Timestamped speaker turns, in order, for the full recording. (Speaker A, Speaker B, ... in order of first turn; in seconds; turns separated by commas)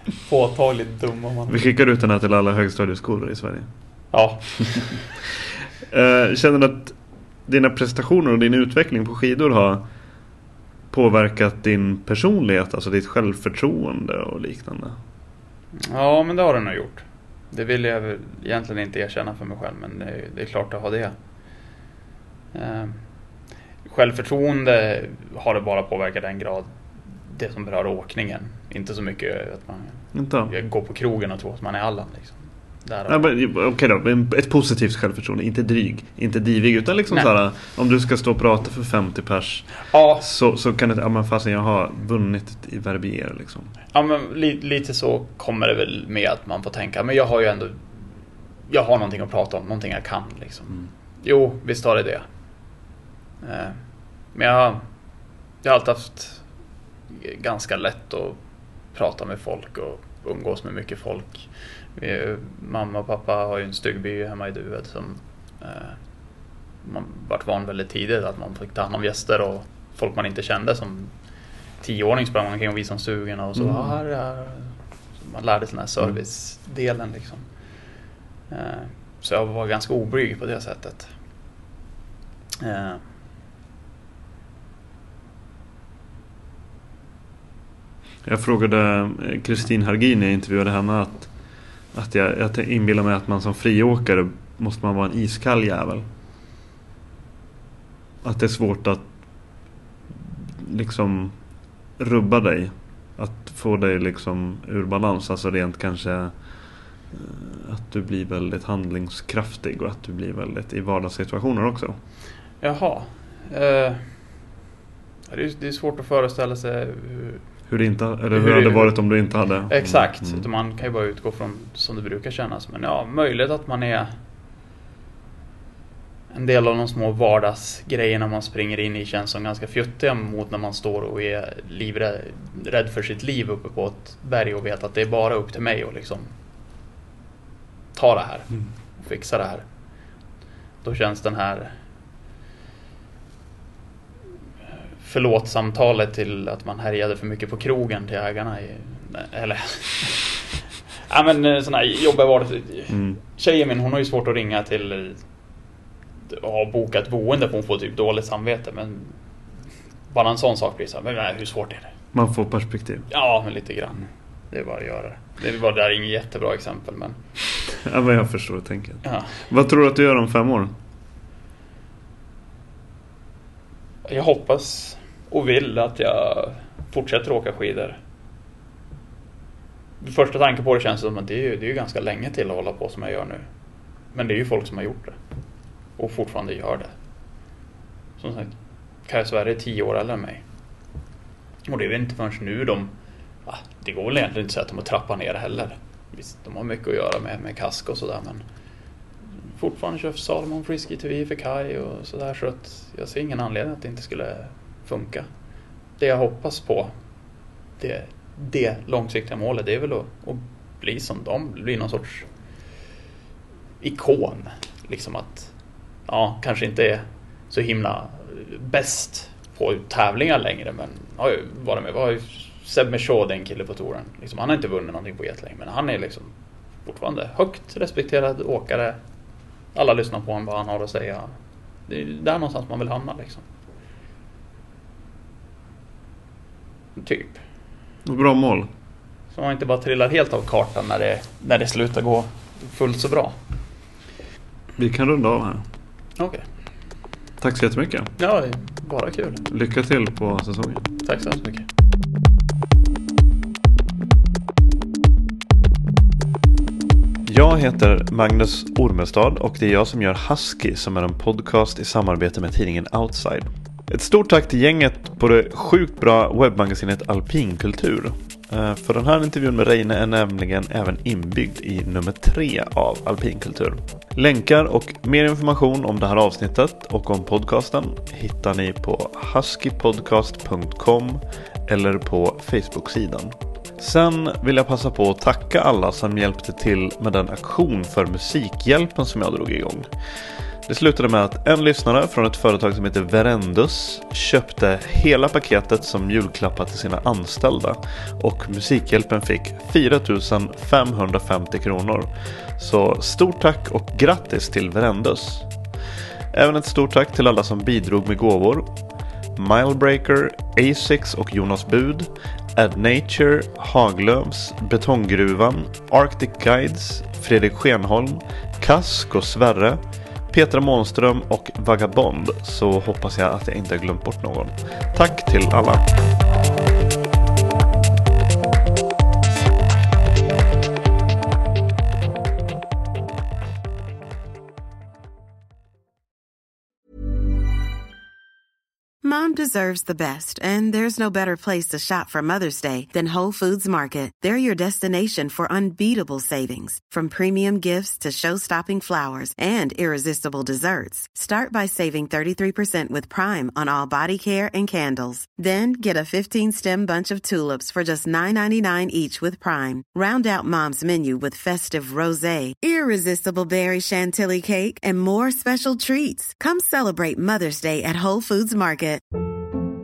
Speaker A: 0.2-1.6, Speaker B: 1.5-3.7, Speaker A: 4.1-5.0, Speaker B: 5.9-6.9, Speaker B: 7.5-9.8, Speaker B: 10.9-15.0, Speaker A: 15.8-21.1, Speaker A: 22.5-23.0, Speaker A: 23.9-26.7, Speaker A: 27.3-33.3, Speaker B: 30.1-30.5, Speaker B: 33.1-43.7, Speaker A: 39.9-40.2, Speaker A: 43.9-48.0, Speaker A: 48.7-52.2, Speaker A: 53.4-53.8, Speaker A: 54.3-54.8, Speaker A: 55.6-56.4, Speaker A: 57.1-58.4, Speaker A: 58.9-66.0, Speaker A: 66.8-71.1, Speaker A: 71.8-77.5, Speaker B: 73.6-73.9, Speaker A: 78.5-81.1, Speaker A: 82.6-83.0, Speaker B: 88.2-91.3, Speaker B: 91.9-96.0, Speaker B: 98.2-99.0, Speaker B: 100.6-101.3, Speaker B: 102.0-106.3, Speaker B: 107.1-112.0, Speaker A: 112.6-114.1, Speaker A: 115.3-117.4, Speaker B: 117.7-120.4, Speaker A: 118.3-119.0, Speaker A: 119.7-124.1, Speaker A: 126.3-136.3, Speaker A: 137.9-139.6, Speaker A: 140.8-141.7, Speaker A: 145.0-150.5, Speaker A: 151.1-155.2, Speaker B: 152.9-153.2, Speaker A: 156.3-159.2, Speaker A: 160.1-161.9, Speaker B: 162.1-163.1, Speaker A: 163.1-167.2, Speaker B: 167.8-170.7, Speaker A: 169.0-169.3, Speaker A: 174.1-178.0, Speaker A: 180.0-183.4, Speaker A: 184.1-185.1, Speaker A: 186.0-186.9, Speaker A: 188.2-188.5, Speaker A: 189.1-190.4, Speaker A: 191.7-192.9, Speaker A: 193.4-198.4, Speaker A: 199.6-205.3, Speaker A: 206.0-206.9, Speaker A: 207.8-212.3, Speaker A: 213.8-215.5, Speaker A: 216.1-226.3, Speaker A: 226.8-229.0, Speaker A: 229.7-231.3, Speaker A: 231.9-233.4, Speaker A: 237.0-237.4, Speaker B: 238.0-238.7, Speaker A: 239.3-243.3, Speaker B: 244.8-245.6, Speaker A: 246.2-246.4, Speaker B: 247.4-248.1, Speaker A: 248.2-249.4, Speaker B: 249.5-250.9, Speaker A: 251.0-251.7, Speaker B: 257.2-289.9, Speaker B: 290.7-305.5, Speaker B: 306.3-308.7, Speaker B: 309.4-325.9, Speaker C: 339.0-369.0